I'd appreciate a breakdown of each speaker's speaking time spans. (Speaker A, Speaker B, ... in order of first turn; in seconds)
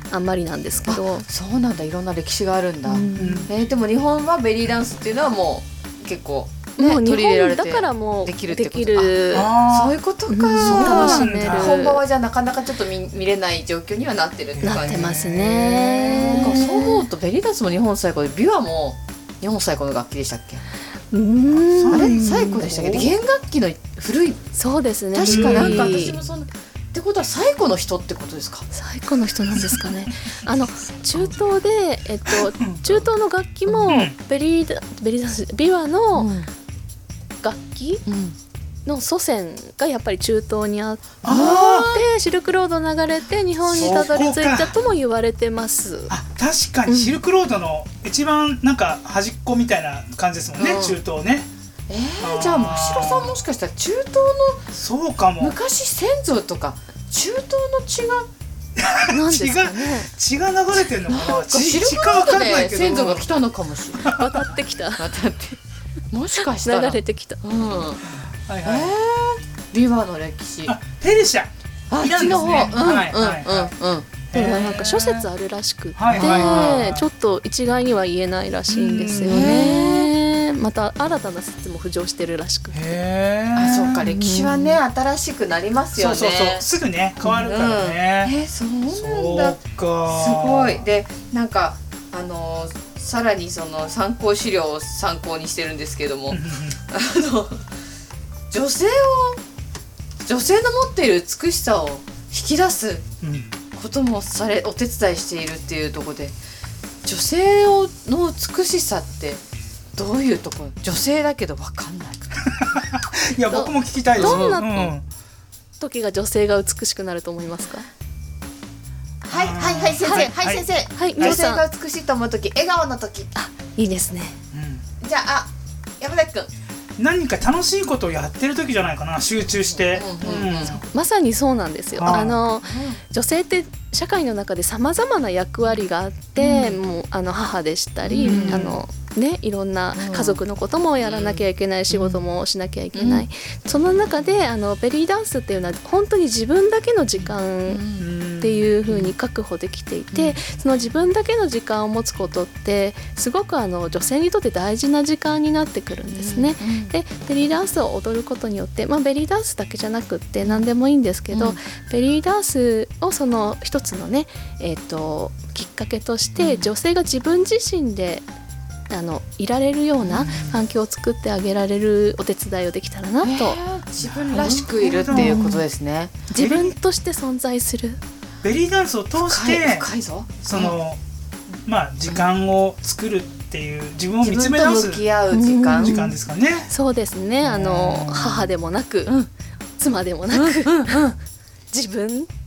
Speaker A: 0.1-1.2, 2.9-3.5, 6.8-9.5, 10.3-12.0, 14.6-17.1, 21.1-22.7, 24.6-26.2, 28.7-36.3, 37.4-38.0, 38.9-46.1, 46.9-47.2, 59.1-60.1, 64.0-65.2, 66.3-67.4, 74.3-83.0, 84.0-84.8, 113.5-114.9, 115.8-117.9, 120.0-120.3, 121.0-121.6, 123.3-124.4, 130.7-147.8, 148.4-168.2, 168.9-173.6, 174.4-175.6, 176.3-178.0, 185.3-186.2, 186.7-189.2, 189.8-191.1, 191.7-192.3
Speaker B: 0.9-15.2, 16.0-20.6, 21.9-24.4, 25.1-28.7, 36.1-36.5, 38.1-38.4, 41.2-42.0, 43.7-44.0, 50.6-51.0, 51.9-54.7, 55.4-58.3, 61.1-64.2, 65.0-65.6, 66.1-68.1, 68.6-70.8, 71.9-74.3, 76.1-76.9, 79.2-80.1, 83.5-86.7, 87.2-97.7, 98.5-99.4, 100.2-103.1, 103.8-106.4, 107.0-109.4, 110.0-112.5, 114.2-114.6, 119.2-123.3, 125.0-126.5, 129.7-130.8, 132.0-133.0, 136.4-136.8, 138.1-138.8, 139.9-140.4, 141.0-142.2, 142.9-143.2, 147.2-148.1, 148.9-149.1, 150.1-150.4, 156.1-156.9, 161.3-161.6, 166.4-166.7, 173.2-176.2, 179.2-180.8, 184.2-186.0, 190.3-191.1
Speaker C: 3.2-3.5, 9.3-10.0, 10.6-11.8, 14.6-16.7, 21.5-23.1, 25.2-26.2, 29.6-29.9, 32.3-33.0, 33.8-34.1, 41.2-41.9, 43.7-44.8, 46.1-51.5, 52.2-53.4, 54.7-55.6, 58.8-63.3, 64.0-64.4, 68.1-68.9, 70.7-73.7, 74.3-75.3, 76.0-77.1, 78.7-79.8, 82.7-84.1, 86.0-88.3, 88.9-90.8, 96.3-96.8, 103.2-103.5, 112.4-115.0, 119.3-120.7, 124.5-124.8, 127.0-130.8, 132.0-132.4, 138.2-138.8, 148.0-148.7, 170.2-170.6, 174.0-175.5, 176.3-176.8, 178.4-179.9, 180.4-181.0, 181.6-185.0, 185.8-186.7, 187.4-188.5